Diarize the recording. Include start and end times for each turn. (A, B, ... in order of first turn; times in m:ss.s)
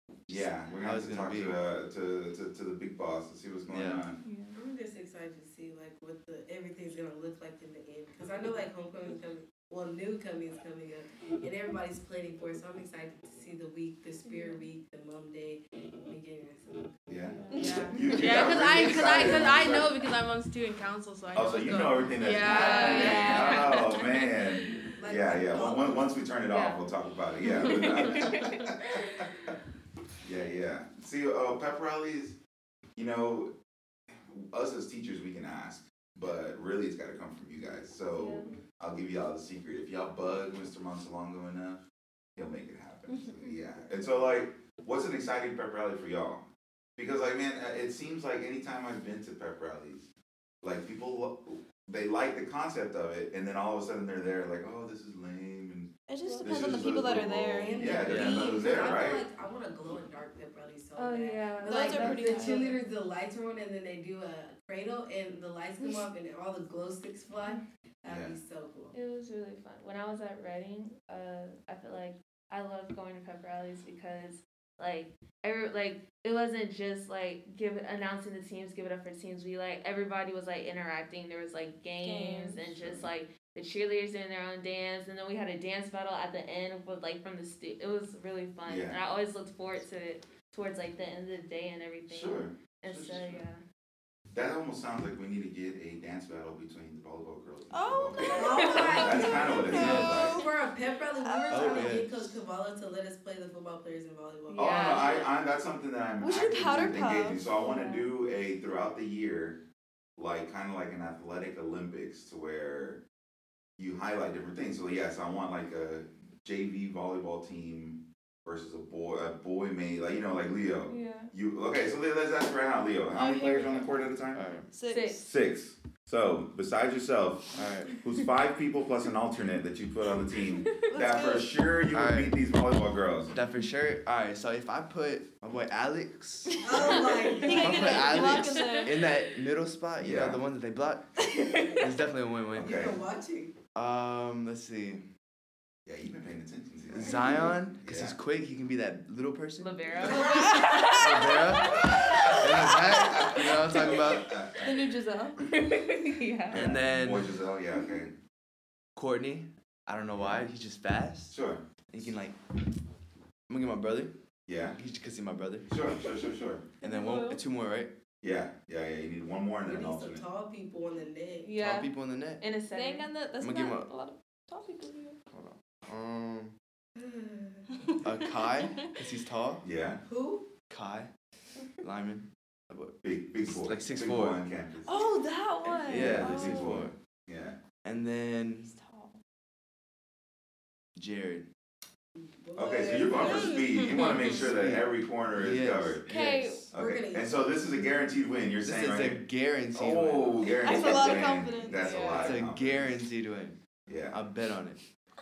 0:00.3-0:01.6 A
0:00.3-0:04.2 B
0:03.7-0:04.0 A
0:04.2-0:04.6 C
0:04.5-0:17.0 D
0:14.2-0:14.7 C
0:17.1-0:20.1 B
0:17.5-0:18.2 C
0:17.5-0:24.0 E
0:21.3-0:29.3 B
0:22.3-0:24.2 F
0:25.0-0:26.1 D
0:26.5-0:26.9 C
0:28.2-0:28.5 C
0:30.2-0:32.4 B
0:33.0-0:33.5 B
0:34.1-0:41.8 B
0:38.1-0:38.5 C
0:42.4-0:46.4 B
0:47.0-0:50.1 B
0:50.6-0:59.3 B
0:56.1-0:58.9 F
0:56.2-0:56.9 C
0:57.6-1:08.9 D
0:58.0-0:58.5 A
1:01.0-1:02.7 C
1:01.6-1:02.8 F
1:08.0-1:08.4 B
1:08.9-1:33.6 C
1:22.0-1:22.6 F
1:22.6-1:23.1 B
1:28.7-1:29.0 B
1:32.1-1:33.5 B
1:34.3-1:40.4 B
1:37.7-1:40.5 F
1:38.2-1:39.1 C
1:38.3-1:45.1 D
1:39.7-1:40.3 A
1:41.2-1:42.0 F
1:41.5-1:42.3 A
1:44.5-1:45.3 C
1:44.5-1:49.6 B
1:46.2-1:47.4 F
1:47.5-1:48.1 C
1:50.2-1:53.0 B
1:53.8-2:04.5 B
2:00.9-2:01.3 C
2:03.1-2:04.0 F
2:04.3-2:04.7 A
2:04.7-2:05.3 F
2:04.9-2:05.2 C
2:05.2-2:13.4 B
2:07.5-2:08.0 A
2:10.8-2:11.6 F
2:11.9-2:12.4 A
2:13.3-2:22.8 A
2:16.5-2:19.1 F
2:16.6-2:18.4 D
2:16.7-2:17.0 B
2:20.0-2:20.4 B
2:21.3-2:21.7 F
2:21.6-2:21.9 D
2:22.6-2:23.0 B
2:22.6-2:23.6 D
2:23.8-2:25.1 A
2:25.9-2:28.2 B
2:26.9-2:30.3 A
2:29.6-2:30.7 C
2:30.0-2:30.9 D
2:30.2-2:32.3 F
2:30.9-2:34.4 A
2:31.8-2:34.8 B
2:34.6-2:35.4 F
2:35.5-2:36.7 C
2:36.5-2:37.4 A
2:36.5-2:38.2 B
2:39.0-2:41.4 A
2:40.2-2:40.5 B
2:41.3-2:41.6 B
2:41.9-2:42.4 A
2:43.5-2:44.1 A
2:44.5-2:44.8 B
2:44.8-2:45.8 A
2:45.7-2:46.7 B
2:46.8-2:47.9 A
2:46.9-2:47.4 F
2:48.2-2:50.2 B
2:49.6-2:51.5 D
2:51.4-2:53.1 C
2:51.6-2:52.4 A
2:52.7-2:55.2 F
2:53.4-2:53.9 A
2:55.3-2:56.6 A
2:57.0-2:57.9 D
2:58.0-2:59.6 A
2:59.6-3:00.0 B
3:00.1-3:00.5 D
3:00.7-3:01.1 A
3:01.8-3:03.0 A
3:03.0-3:05.1 B
3:03.5-3:04.4 A
3:04.8-3:06.9 F
3:05.9-3:06.9 A
3:05.9-3:07.6 B
3:07.8-3:08.7 A
3:08.7-3:09.2 F
3:11.0-3:11.5 A
3:12.2-3:14.1 D
3:12.6-3:23.0 B
3:13.2-3:14.5 F
3:13.9-3:14.3 E
3:14.4-3:16.6 A
3:16.1-3:16.7 F
3:16.7-3:17.5 D
3:18.6-3:20.8 A
3:20.4-3:22.3 F
3:21.8-3:22.3 D
3:22.2-3:23.6 A
3:23.9-3:24.2 B
3:24.1-3:24.8 A